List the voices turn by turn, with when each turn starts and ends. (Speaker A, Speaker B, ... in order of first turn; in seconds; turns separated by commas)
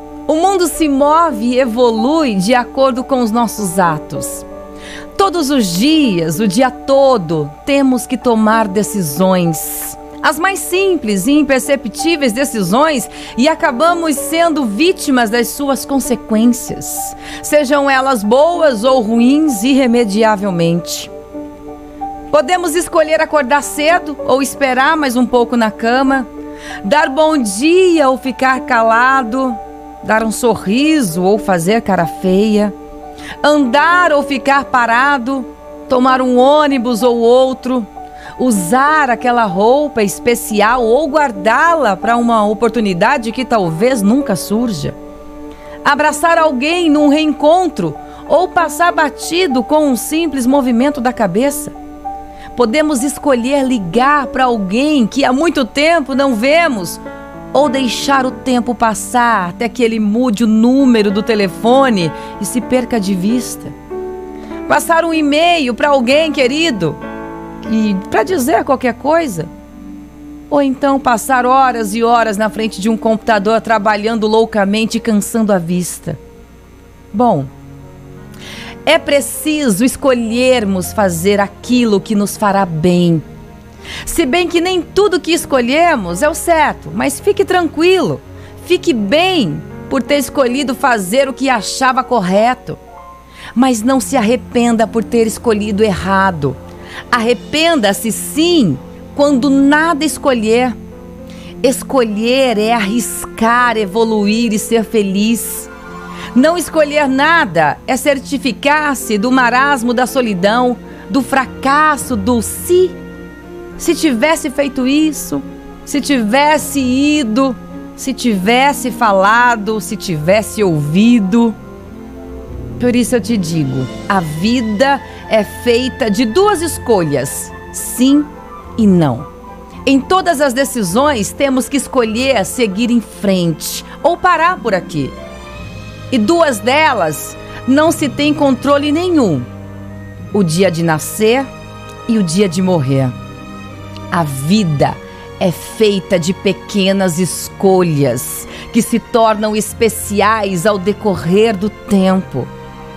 Speaker A: 0.3-4.5, Speaker A: 5.1-21.1, Speaker A: 22.3-26.3, Speaker A: 26.8-32.7, Speaker A: 33.4-45.0, Speaker A: 45.8-51.7, Speaker A: 52.5-57.0, Speaker A: 57.5-63.7, Speaker A: 64.7-67.0, Speaker A: 67.6-69.5, Speaker A: 70.5-76.2, Speaker A: 77.1-77.5, Speaker A: 78.8-83.2, Speaker A: 84.0-92.8, Speaker A: 93.5-96.6, Speaker A: 97.1-100.8, Speaker A: 101.6-105.7, Speaker A: 106.3-113.0, Speaker A: 113.8-121.6, Speaker A: 122.8-129.3, Speaker A: 129.8-135.2, Speaker A: 136.1-139.5, Speaker A: 140.3-141.5, Speaker A: 142.1-143.2, Speaker A: 144.1-152.5